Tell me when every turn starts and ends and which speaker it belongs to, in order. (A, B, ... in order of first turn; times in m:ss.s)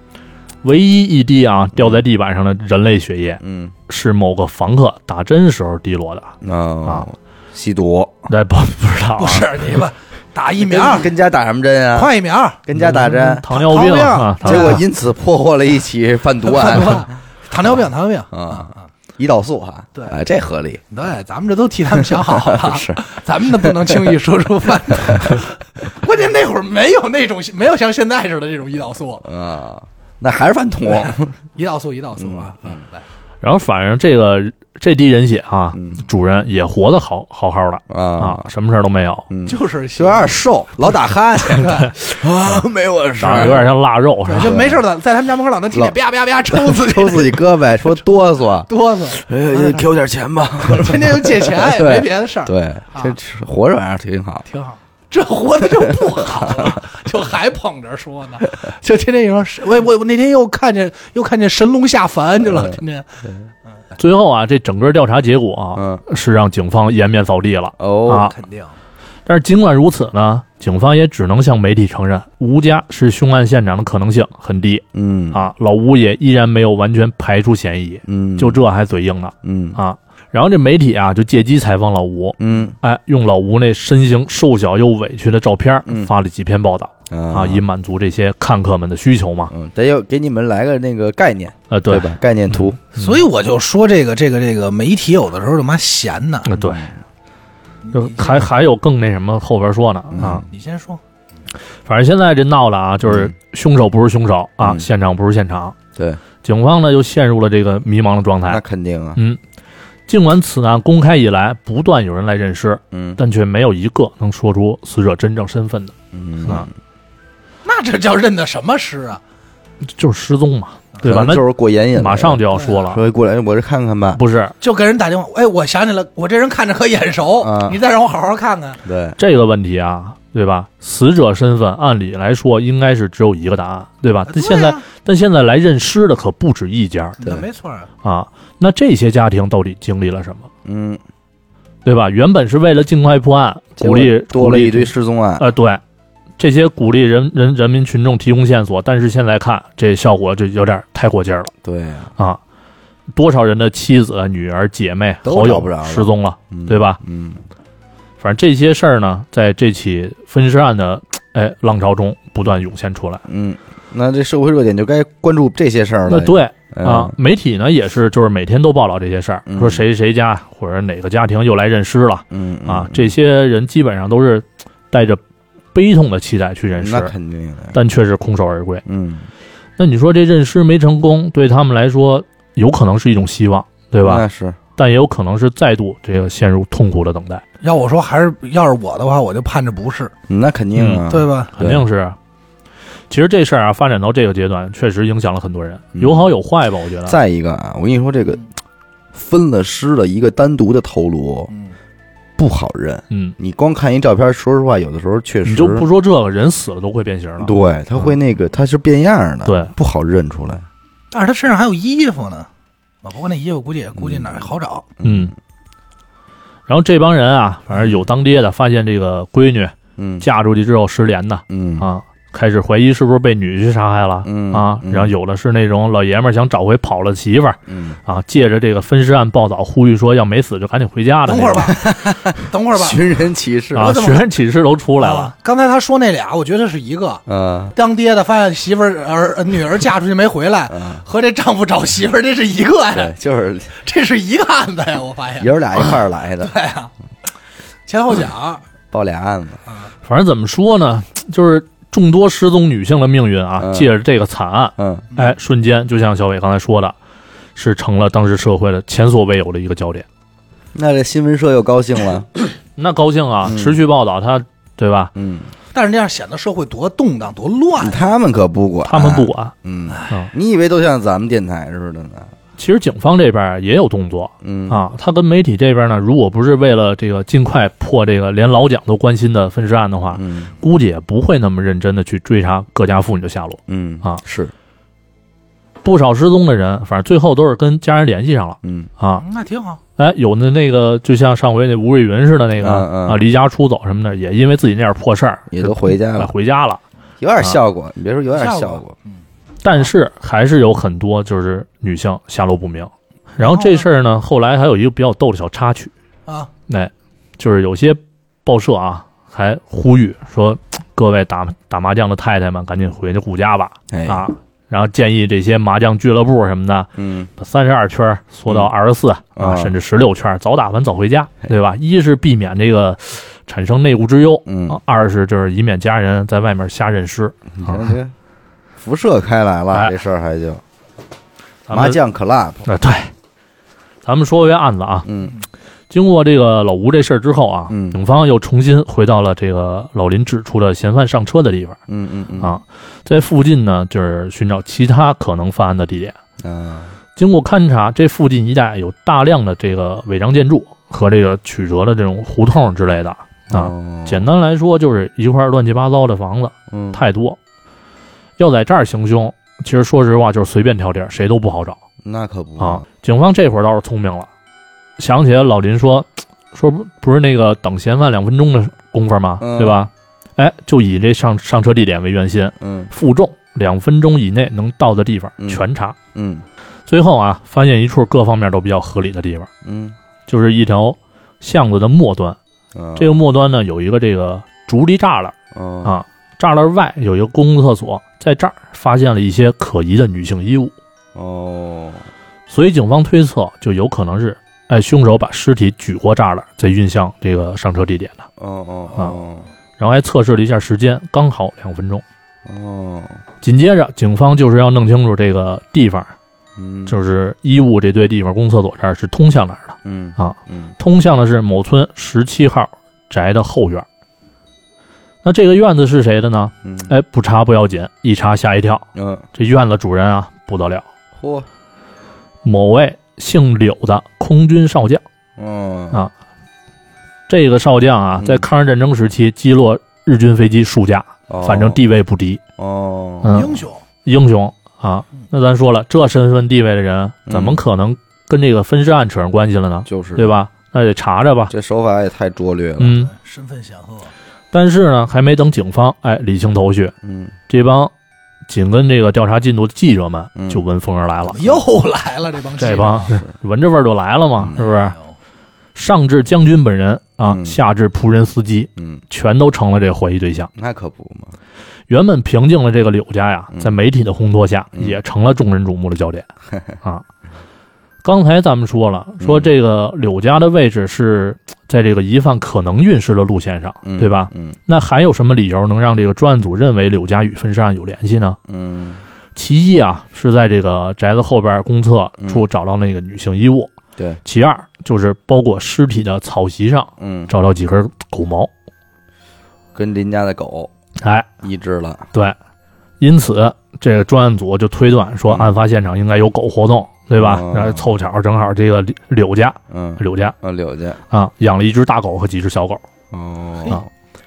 0:00.6-0:06.3 A
0:03.4-0:03.7 B
0:06.4-0:08.2 B
0:08.3-0:09.5 A
0:09.2-0:11.1 C
0:10.6-0:12.1 B
0:11.9-0:12.7 C
0:12.6-0:13.5 B
0:12.8-0:14.8 A
0:13.5-0:14.8 C
0:14.4-0:17.1 B
0:16.4-0:18.8 C
0:18.3-0:20.8 B
0:20.9-0:29.3 C
0:22.4-0:23.0 B
0:23.6-0:23.9 B
0:25.1-0:25.4 B
0:29.2-0:31.4 B
0:31.0-0:33.0 C
0:32.2-0:32.8 B
0:33.4-0:39.3 A
0:35.7-0:36.0 B
0:37.9-0:38.5 B
0:39.3-0:43.7 B
0:39.5-0:40.3 C
0:41.4-0:42.0 C
0:43.2-0:44.6 A
0:44.3-0:47.4 C
0:44.4-0:44.8 B
0:46.5-0:54.5 B
0:48.7-0:49.9 C
0:50.6-0:53.2 C
0:54.5-1:03.1 C
1:04.0-1:08.4 A
1:05.8-1:06.0 B
1:07.8-1:08.3 B
1:08.1-1:08.8 C
1:09.3-1:29.5 A
1:14.9-1:15.4 B
1:18.1-1:18.6 B
1:19.4-1:19.8 B
1:22.4-1:22.8 B
1:25.9-1:26.1 B
1:27.1-1:27.6 B
1:29.5-1:32.8 B
1:31.7-1:33.2 A
1:33.0-1:36.5 C
1:36.5-1:36.8 A
1:36.6-1:36.9 B
1:37.8-1:38.5 C
1:37.9-1:40.4 A
1:40.1-1:40.4 B
1:40.4-1:41.0 C
1:41.9-1:45.8 A
1:43.0-1:43.3 B
1:44.6-1:44.9 B
1:46.0-1:46.2 B
1:46.4-1:48.6 A
1:48.5-1:49.2 B
1:50.1-1:55.9 A
1:52.9-1:53.2 B
1:56.1-1:56.7 B
1:57.6-1:59.2 C
1:59.8-2:01.4 A
2:01.0-2:04.2 B
2:02.0-2:03.0 A
2:02.5-2:02.8 C
2:04.2-2:04.6 A
2:04.6-2:08.8 C
2:07.4-2:07.8 B
2:08.8-2:09.2 B
2:09.2-2:17.2 A
2:14.3-2:14.8 C
2:17.2-2:17.9 C
2:18.0-2:20.5 A
2:20.6-2:21.0 B
2:21.8-2:25.8 A
2:23.8-2:25.5 B
2:26.4-2:31.5 A
2:31.6-2:32.1 B
2:33.1-2:37.0 A
2:35.2-2:37.4 B
2:38.2-2:43.2 A
2:43.3-2:47.1 B
2:46.1-2:55.2 A
2:49.5-2:49.8 B
2:52.3-2:53.1 B
2:55.7-2:57.1 A
2:56.8-2:57.8 B
2:57.7-2:58.8 A
2:58.9-2:59.3 B
2:59.8-3:04.2 A
3:04.0-3:04.6 B
3:04.8-3:07.4 A
3:07.6-3:10.1 C
3:10.3-3:11.8 B
3:10.8-3:11.0 A
3:11.1-3:11.5 C
3:11.6-3:12.2 A
3:13.1-3:17.2 A
3:16.0-3:16.3 B
3:17.1-3:18.4 B
3:19.1-3:21.5 B
3:22.4-3:25.9 B
3:23.1-3:23.4 A
3:25.5-3:27.5 A
3:27.4-3:30.7 B
3:29.5-3:29.7 A
3:31.1-3:32.5 C
3:33.0-3:34.9 C
3:34.0-3:34.3 B
3:35.0-3:35.3 B
3:35.0-3:35.3 A
3:36.7-3:51.8 A
3:40.0-3:40.2 B
3:41.5-3:41.9 B
3:44.2-3:45.1 B
3:47.7-3:48.0 B
3:51.3-3:53.2 C
3:51.8-3:54.0 B
3:53.8-3:55.3 A
3:53.8-3:54.3 C
3:55.0-4:03.1 C
3:57.3-3:57.7 B
4:00.7-4:01.0 B
4:02.9-4:03.8 B
4:03.8-4:06.9 C
4:05.4-4:06.5 B
4:07.9-4:08.6 C
4:08.9-4:09.6 B
4:10.0-4:17.0 A
4:13.6-4:13.9 B
4:14.8-4:15.1 B
4:17.6-4:20.1 A
4:20.7-4:22.3 B
4:22.8-4:25.1 A
4:23.5-4:23.8 B
4:25.2-4:25.5 B
4:25.7-4:28.0 C
4:27.8-4:32.3 B
4:28.9-4:29.5 A
4:32.6-4:44.2 A
4:34.4-4:34.8 B
4:40.1-4:40.5 B
4:43.7-4:44.5 B
4:45.8-4:49.2 A
4:48.6-4:48.9 B
4:49.2-4:49.8 C
4:50.0-4:56.8 A
4:52.6-4:53.2 B
4:55.5-4:56.3 B
4:57.2-4:58.9 B
4:58.3-4:59.2 C
4:59.6-5:05.9 A
5:03.4-5:03.9 C
5:06.7-5:27.9 A
5:13.9-5:14.3 B
5:17.0-5:17.3 B
5:19.4-5:19.7 B
5:24.5-5:24.8 B
5:27.5-5:28.1 B
5:28.8-5:30.6 B
5:31.7-5:32.0 A
5:31.7-5:32.7 B
5:32.7-5:33.1 A
5:34.0-5:35.1 A
5:35.0-5:35.4 B
5:35.9-5:41.8 A
5:37.7-5:38.0 B
5:41.9-5:42.6 B
5:42.4-5:46.2 A
5:46.4-5:47.0 B
5:47.2-5:57.4 A
5:53.5-5:54.3 B
5:56.7-5:57.0 B
5:58.4-6:01.8 A
6:02.0-6:02.8 B
6:02.6-6:04.3 A
6:05.0-6:16.0 A
6:09.4-6:09.8 B
6:12.6-6:12.9 B
6:15.4-6:16.4 B
6:16.9-6:19.5 A
6:19.6-6:20.0 B
6:20.3-6:22.4 A
6:22.8-6:23.2 B
6:23.0-6:30.7 A
6:25.5-6:26.0 B
6:31.2-6:32.1 B
6:32.5-6:38.2 A
6:38.4-6:39.5 B
6:39.8-6:42.0 A
6:42.5-6:43.2 B
6:43.4-6:46.1 A
6:46.6-6:47.0 B
6:46.9-6:53.8 A
6:49.8-6:50.7 B
6:55.2-7:00.8 A
6:56.6-6:56.9 B
6:59.0-6:59.2 B
7:01.2-7:01.5 B
7:02.4-7:05.0 A
7:05.4-7:06.0 B
7:07.3-7:12.4 A
7:08.2-7:08.5 B
7:11.3-7:11.8 B
7:12.6-7:13.5 B
7:13.2-7:21.5 A
7:13.3-7:13.8 C
7:17.3-7:17.6 B
7:19.9-7:20.3 B
7:21.5-7:23.0 B
7:22.8-7:23.1 A
7:23.0-7:24.1 C
7:24.5-7:26.9 A
7:27.0-7:27.3 B
7:27.5-7:27.9 A
7:28.5-7:31.4 A
7:30.4-7:30.6 B
7:31.2-7:33.2 C
7:32.6-7:35.0 A
7:34.6-7:35.1 C
7:35.8-7:40.5 A
7:37.3-7:37.6 B
7:38.8-7:39.0 B
7:40.5-7:41.4 B
7:41.9-7:46.3 A
7:48.0-7:58.4 A
7:49.2-7:49.5 B
7:53.8-7:54.6 B
7:58.5-7:59.0 B
7:59.4-8:03.7 A
8:04.2-8:08.5 A
8:07.0-8:07.3 B
8:09.8-8:10.7 B
8:11.0-8:11.3 A
8:11.4-8:12.1 B
8:13.0-8:20.4 A
8:17.2-8:17.9 B
8:19.7-8:21.0 B
8:21.1-8:22.8 A
8:23.1-8:23.9 B